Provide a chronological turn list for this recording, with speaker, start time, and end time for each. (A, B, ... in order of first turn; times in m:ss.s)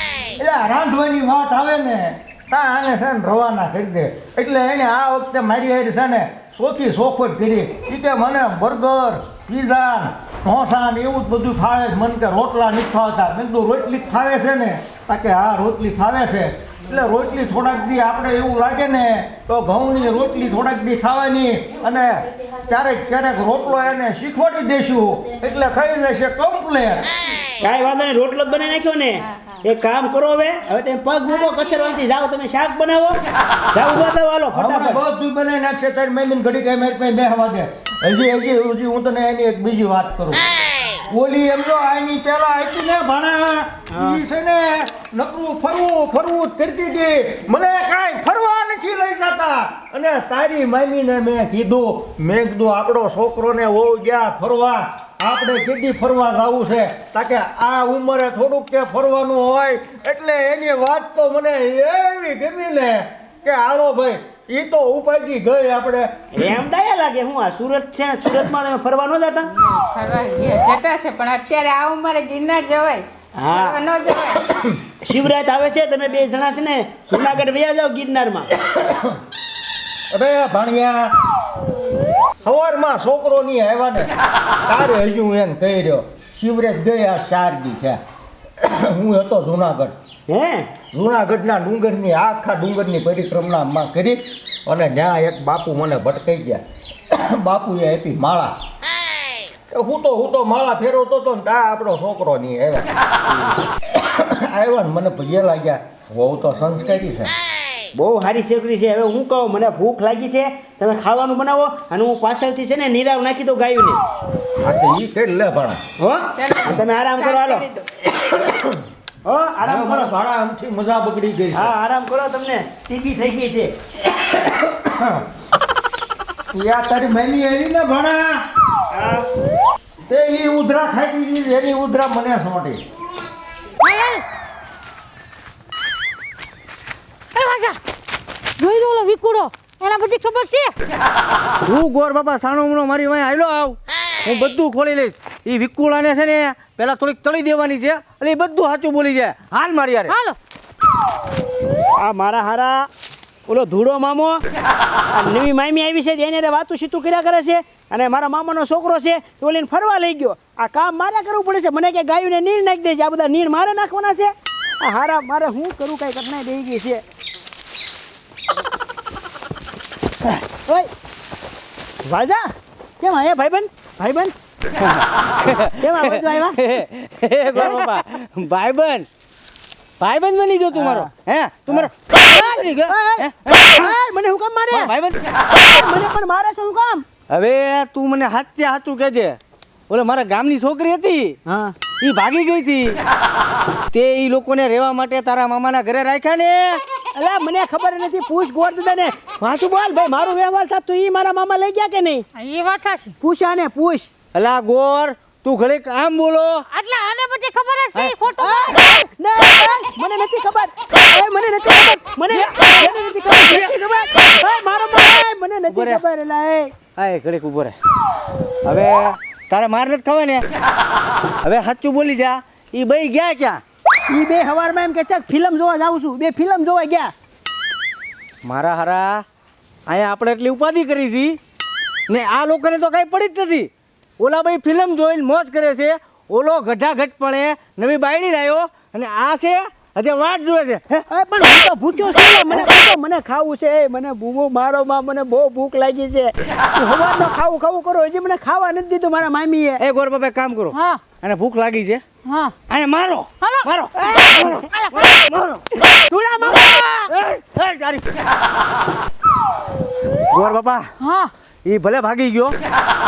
0:00.4-0:27.0 A
0:27.6-0:33.2 B
0:29.2-0:29.6 C
0:33.7-0:35.0 B
0:34.5-0:40.4 A
0:41.1-1:06.2 A
1:06.3-1:09.5 B
1:09.5-1:14.5 C
1:13.4-1:13.8 B
1:15.0-1:18.5 B
1:18.7-1:19.1 A
1:20.1-1:21.1 A
1:22.4-1:24.1 A
1:24.7-1:28.0 A
1:28.6-1:29.9 A
1:30.3-1:30.7 B
1:30.9-1:36.6 A
1:37.1-1:38.5 A
1:39.7-1:42.9 A
1:43.9-1:47.3 A
1:48.0-1:54.0 B
1:54.6-1:55.8 A
1:56.0-1:57.7 B
1:56.4-1:57.9 C
1:59.2-2:00.1 B
1:59.6-2:01.7 A
2:01.6-2:03.7 B
2:04.6-2:05.2 A
2:06.5-2:08.4 A
2:08.9-2:09.3 B
2:10.1-2:12.8 A
2:13.8-2:14.2 D
2:17.3-2:17.8 D
2:18.6-2:20.7 D
2:21.7-2:30.1 E
2:30.1-2:30.4 D
2:32.0-2:32.9 B
2:33.5-2:34.4 B
2:35.1-2:47.0 B
2:50.6-2:50.9 B
2:52.0-2:52.5 B
2:53.0-2:54.3 B
2:54.8-2:59.1 E
2:55.8-2:56.8 B
3:00.0-3:03.9 E
3:00.8-3:01.1 B
3:01.7-3:04.9 B
3:04.7-3:05.2 E
3:05.5-3:07.1 B
3:07.3-3:09.4 E
3:09.9-3:11.4 E
3:11.5-3:11.8 B
3:11.9-3:13.0 E
3:13.9-3:16.8 E
3:17.2-3:22.2 B
3:22.4-3:23.2 D
3:23.2-3:24.1 B
3:24.4-3:26.6 E
3:26.7-3:28.9 D
3:28.4-3:36.8 B
3:32.4-3:33.7 E
3:35.7-3:36.0 E
3:36.9-3:37.8 E
3:38.7-3:40.4 E
3:41.4-3:43.6 E
3:44.1-3:47.1 B
3:48.4-3:49.2 E
3:49.9-3:51.4 E
3:52.1-4:00.8 E
4:00.9-4:09.8 B
4:09.8-4:12.0 E
4:10.7-4:11.0 D
4:12.2-4:12.6 D
4:12.7-4:15.7 E
4:13.4-4:15.2 D
4:15.9-4:16.9 B
4:16.4-4:17.1 D
4:17.1-4:18.0 E
4:20.3-4:20.9 E
4:21.0-4:21.3 D
4:21.7-4:22.6 E